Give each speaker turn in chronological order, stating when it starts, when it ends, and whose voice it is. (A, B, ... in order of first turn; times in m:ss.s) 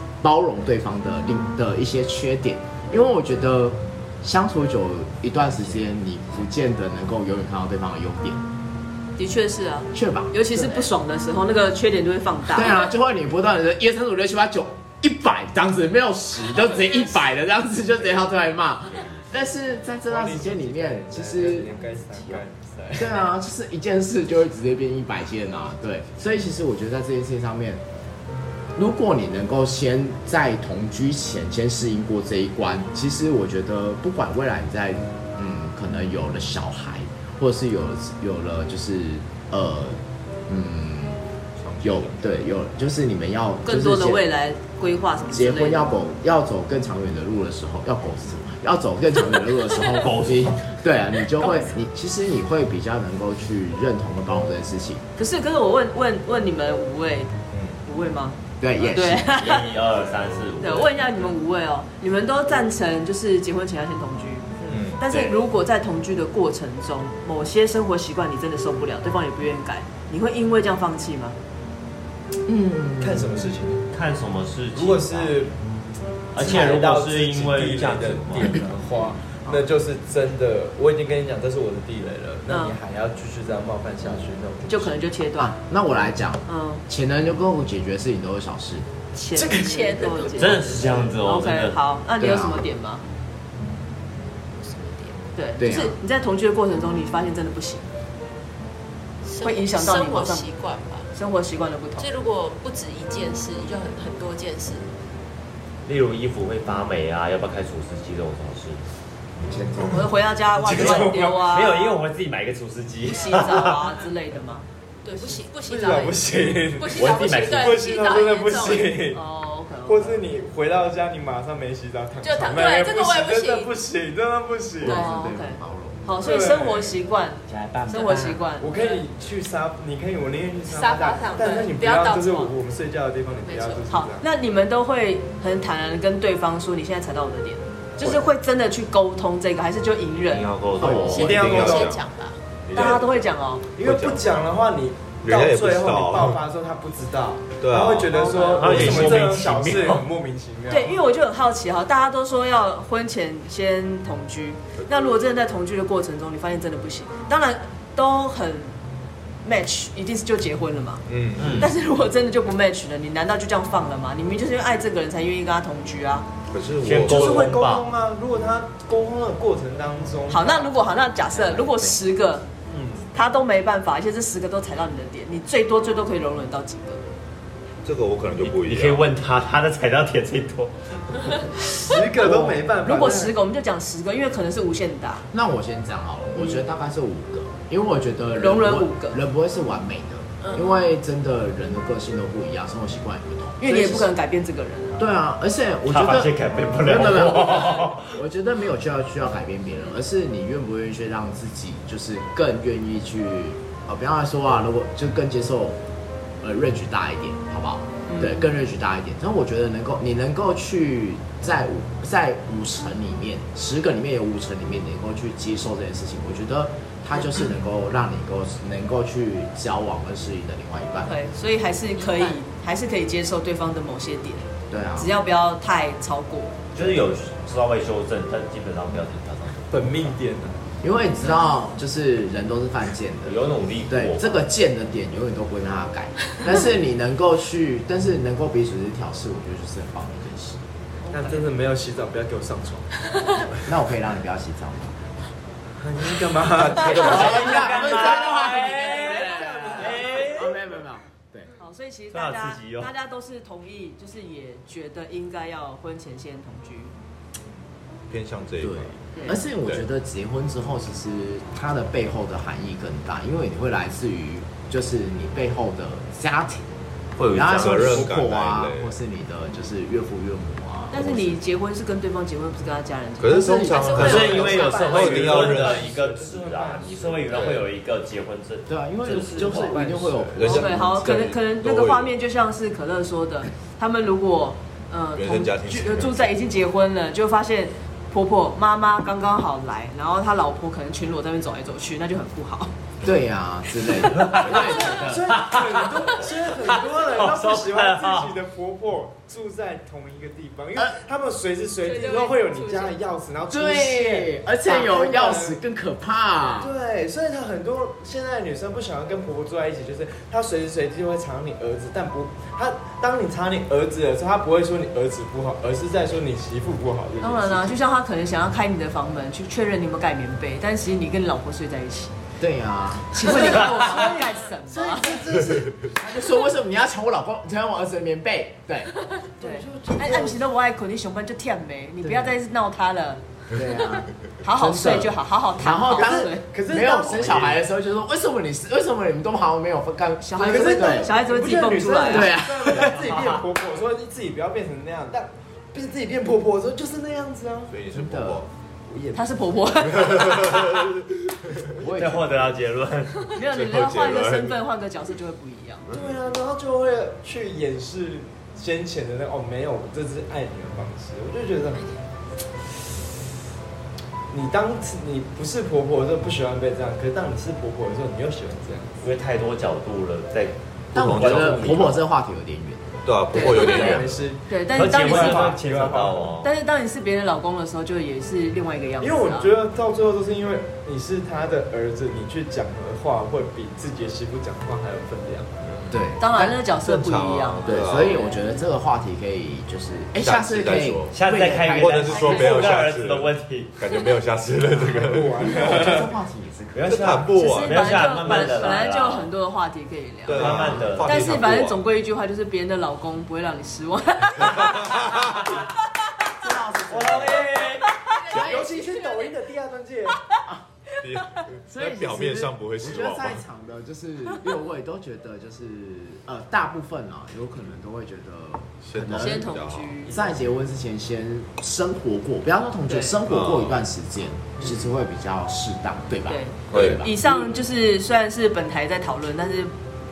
0:00.2-0:08.4 A
0:09.2-0:12.9 B
0:09.9-0:10.9 A
0:12.5-0:27.8 A
0:20.1-0:23.2 C
0:28.8-0:41.2 A
0:41.6-0:42.4 D
0:41.8-0:44.2 A
0:43.6-0:46.0 B
0:45.3-0:55.0 A
0:49.9-0:50.6 E
0:55.2-0:57.3 B
0:57.5-0:57.8 D
0:57.8-0:59.7 B
0:58.6-0:59.3 A
0:59.3-1:00.9 E
1:00.0-1:00.8 D
1:00.6-1:11.4 B
1:04.6-1:04.9 C
1:04.7-1:05.1 D
1:05.1-1:05.3 E
1:12.5-1:13.5 A
1:13.0-1:13.9 C
1:13.9-1:15.5 E
1:14.7-1:15.5 C
1:16.3-1:18.6 E
1:16.3-1:25.1 C
1:22.5-1:22.7 B
1:24.7-1:25.5 B
1:25.4-1:28.9 A
1:26.4-1:26.8 B
1:29.1-1:33.0 B
1:29.3-1:31.0 C
1:29.4-1:31.0 F
1:30.4-1:31.8 E
1:32.2-1:32.6 A
1:34.6-1:35.2 F
1:35.3-1:37.8 B
1:35.6-1:36.0 A
1:39.2-1:41.1 F
1:39.4-1:40.5 B
1:41.1-1:42.1 B
1:42.0-1:44.9 F
1:45.8-1:48.8 E
1:49.4-1:50.0 A
1:49.9-1:51.9 B
1:50.5-1:51.5 C
1:50.7-1:53.9 E
1:53.1-1:54.6 B
1:55.0-1:59.0 F
1:55.6-1:59.2 C
1:56.9-1:57.8 E
1:59.0-2:00.2 B
1:59.8-2:05.0 C
2:02.2-2:03.7 F
2:04.8-2:06.0 A
2:04.8-2:09.0 B
2:06.2-2:07.0 C
2:07.5-2:08.4 E
2:08.6-2:14.2 C
2:10.7-2:12.5 F
2:13.4-2:13.9 F
2:13.9-2:20.5 B
2:18.0-2:18.2 C
2:20.2-2:21.9 E
2:20.8-2:21.3 A
2:20.8-2:22.4 F
2:20.8-2:21.9 C
2:21.0-2:22.0 D
2:22.7-2:23.1 E
2:22.7-2:23.2 C
2:22.7-2:23.7 B
2:23.7-2:31.0 C
2:23.8-2:24.5 D
2:25.2-2:26.4 D
2:27.6-2:29.4 D
2:28.1-2:28.9 B
2:28.4-2:30.1 E
2:30.7-2:38.8 B
2:39.4-2:46.3 B
2:41.1-2:41.7 D
2:41.4-2:41.7 E
2:46.5-2:47.5 D
2:46.8-2:47.9 E
2:47.0-2:51.9 C
2:50.3-2:52.4 B
2:52.7-2:53.1 C
2:53.1-2:57.0 B
2:57.8-2:59.1 D
2:58.4-3:01.3 E
3:01.8-3:03.4 C
3:02.2-3:02.6 A
3:02.8-3:05.2 B
3:05.3-3:14.1 A
3:08.4-3:09.2 B
3:13.6-3:15.1 B
3:15.0-3:25.8 A
3:15.8-3:18.2 E
3:26.4-3:41.2 A
3:28.1-3:28.5 B
3:41.0-3:46.7 B
3:42.0-3:42.4 F
3:44.7-3:45.1 A
3:46.7-3:50.1 E
3:49.7-3:50.6 C
3:50.8-4:00.6 A
3:53.2-3:54.4 E
4:01.0-4:01.5 B
4:01.1-4:03.6 C
4:03.6-4:05.0 A
4:05.8-4:07.1 C
4:06.6-4:07.3 D
4:06.8-4:10.6 E
4:06.9-4:11.5 A
4:07.1-4:10.1 B
4:08.9-4:10.2 C
4:11.6-4:16.9 B
4:12.1-4:12.9 E
4:18.1-4:19.0 D
4:18.6-4:26.7 A
4:19.1-4:19.4 B
4:27.2-4:28.1 E
4:27.3-4:31.3 A
4:27.5-4:28.9 D
4:30.9-4:35.0 B
4:33.2-4:35.9 D
4:33.4-4:33.8 A
4:33.7-4:34.9 F
4:33.9-4:39.8 E
4:34.0-4:37.5 C
4:37.4-4:37.6 D
4:38.7-4:41.0 A
4:39.1-4:40.8 C
4:40.4-4:42.1 D
4:40.5-4:52.7 B
4:45.1-4:46.4 D
4:53.0-4:55.2 A
4:53.8-4:54.8 B
4:54.0-4:56.1 E
4:54.4-5:05.6 C
4:56.9-4:58.4 E
5:01.8-5:02.9 B
5:03.5-5:06.7 A
5:06.6-5:17.8 C
5:17.2-5:22.1 B
5:22.4-5:23.4 A
5:23.1-5:25.2 B
5:23.2-5:25.8 C
5:25.8-5:28.9 A
5:29.2-5:33.2 B
5:29.4-5:30.4 C
5:32.0-5:32.4 A
5:33.5-5:41.1 A
5:34.4-5:36.5 B
5:35.9-5:37.6 C
5:40.2-5:42.4 B
5:40.4-5:47.7 C
5:42.1-5:43.0 A
5:47.7-5:48.5 D
5:47.9-5:48.4 A
5:48.9-5:49.7 C
5:49.1-5:50.9 B
5:50.0-5:51.7 D
5:51.7-5:52.5 A
5:51.8-5:53.3 E
5:53.3-5:55.9 B
5:53.4-5:54.6 D
5:55.9-6:01.9 C
6:04.3-6:09.1 C
6:09.0-6:12.0 E
6:10.9-6:13.0 A
6:10.9-6:11.9 D
6:13.0-6:14.2 D
6:13.3-6:16.4 C
6:13.3-6:15.6 B
6:13.7-6:14.0 A
6:14.7-6:16.5 E
6:16.4-6:19.5 B
6:19.0-6:25.8 C
6:25.9-6:26.6 A
6:26.2-6:28.6 B
6:26.6-6:28.2 D
6:27.6-6:32.2 A
6:30.2-6:31.1 D
6:31.1-6:33.8 E
6:31.7-6:35.5 D
6:32.1-6:32.8 B
6:34.6-6:37.1 A
6:34.9-6:36.1 C
6:36.7-6:39.3 E
6:36.9-6:38.3 D
6:37.3-6:45.6 B
6:40.3-6:41.8 D
6:40.3-6:41.4 E
6:40.7-6:41.0 A
6:44.4-6:45.5 D
6:46.3-6:47.6 A
6:46.9-6:48.0 E
6:48.0-6:48.5 B
6:48.2-6:50.3 C
6:48.2-6:48.7 A
6:51.0-6:53.4 D
6:51.7-6:59.5 A
6:58.8-7:00.0 D
6:59.2-7:00.1 B
7:00.0-7:00.5 C
7:00.1-7:07.2 A
7:02.9-7:03.2 B
7:03.2-7:03.8 D
7:06.2-7:09.7 B
7:06.7-7:07.1 D